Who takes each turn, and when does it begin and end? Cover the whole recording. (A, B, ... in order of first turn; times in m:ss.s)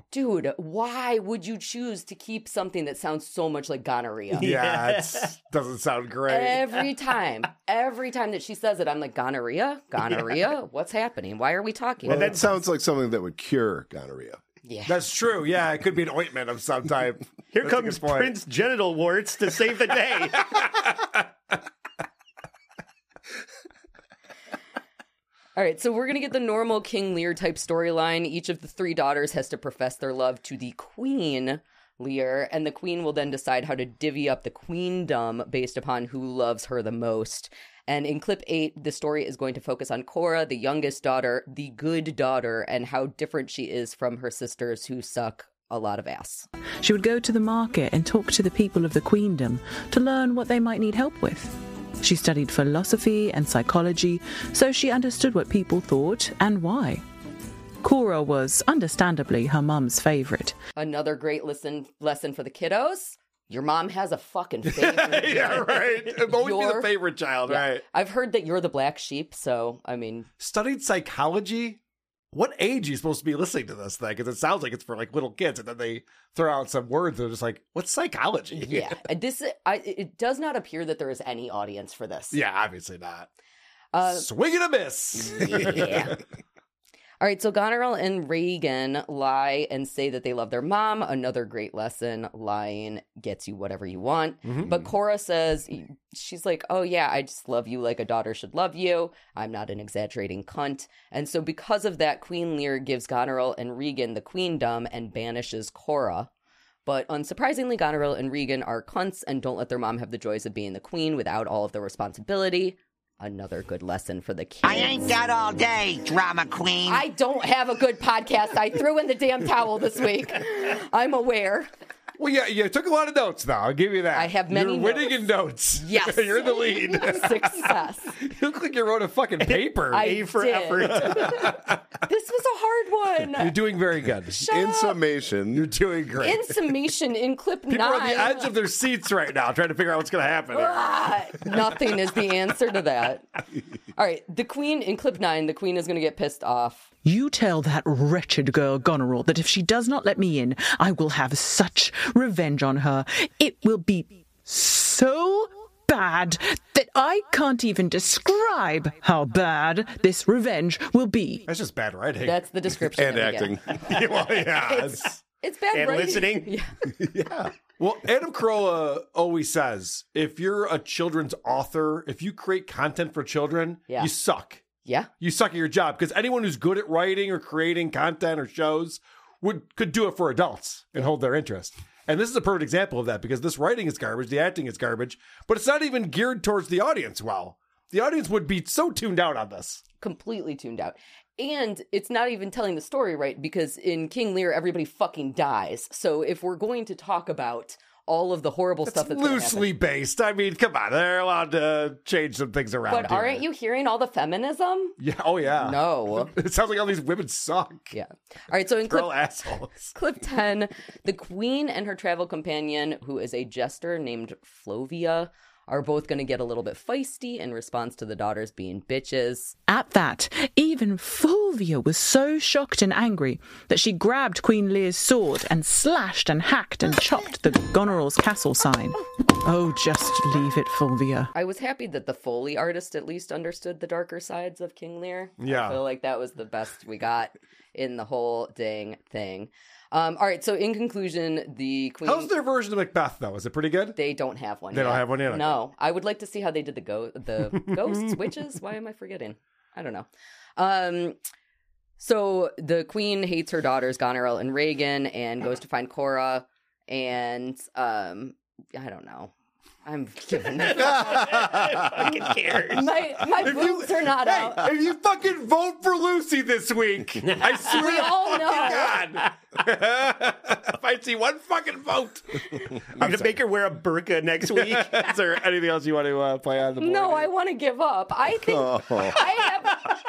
0:00.1-0:04.5 A
0:04.4-0:06.8 B
0:04.4-0:05.3 C
0:06.3-0:12.4 A
0:12.0-0:14.4 D
0:12.1-0:12.4 B
0:14.6-0:15.0 A
0:14.9-0:18.3 B
0:17.5-0:20.6 C
0:25.6-0:46.5 A
0:46.8-0:57.0 E
0:57.8-1:00.6 E
1:00.8-1:06.9 A
1:04.6-1:07.8 B
1:07.5-1:10.3 A
1:10.4-1:11.8 B
1:12.3-1:19.0 B
1:18.5-1:22.4 A
1:22.3-1:23.3 B
1:23.9-1:24.3 A
1:24.0-1:26.2 B
1:25.2-1:26.2 A
1:27.2-1:46.3 A
1:34.4-1:34.9 B
1:46.9-1:55.2 A
1:54.6-1:57.0 F
1:56.9-2:01.7 A
2:02.2-2:10.1 B
2:04.2-2:05.3 A
2:05.8-2:08.2 A
2:09.4-2:11.5 C
2:09.9-2:11.5 A
2:10.9-2:11.8 B
2:12.0-2:13.6 A
2:13.4-2:14.5 B
2:14.3-2:15.0 A
2:14.5-2:15.7 D
2:15.5-2:16.6 B
2:16.2-2:18.5 A
2:17.7-2:21.1 B
2:20.5-2:23.2 A
2:24.0-2:26.9 A
2:27.0-2:41.4 E
2:41.5-2:42.4 B
2:42.2-2:43.6 A
2:42.9-2:43.7 D
2:43.8-2:45.2 B
2:44.6-2:46.7 A
2:45.7-2:46.5 C
2:47.0-2:47.5 D
2:47.8-2:54.6 B
2:54.8-2:55.1 A
2:55.2-3:09.8 B
3:10.0-3:19.7 A
3:18.9-3:23.4 B
3:22.9-3:25.0 A
3:25.0-3:27.9 B
3:25.6-3:26.3 A
3:27.9-3:29.1 A
3:28.9-3:29.9 B
3:29.9-3:39.6 A
3:39.7-3:51.3 E
3:51.3-4:02.3 A
3:55.4-3:55.8 B
4:02.0-4:04.0 B
4:04.0-4:11.2 A
4:04.7-4:05.6 B
4:07.5-4:08.2 B
4:12.0-4:19.3 A
4:19.8-4:21.5 A
4:20.8-4:22.9 C
4:22.7-4:24.7 A
4:23.4-4:32.4 B
4:27.2-4:27.9 C
4:27.6-4:29.0 A
4:33.0-4:33.3 B
4:33.0-4:35.1 C
4:34.5-4:37.3 B
4:36.8-4:39.8 A
4:38.4-4:39.2 D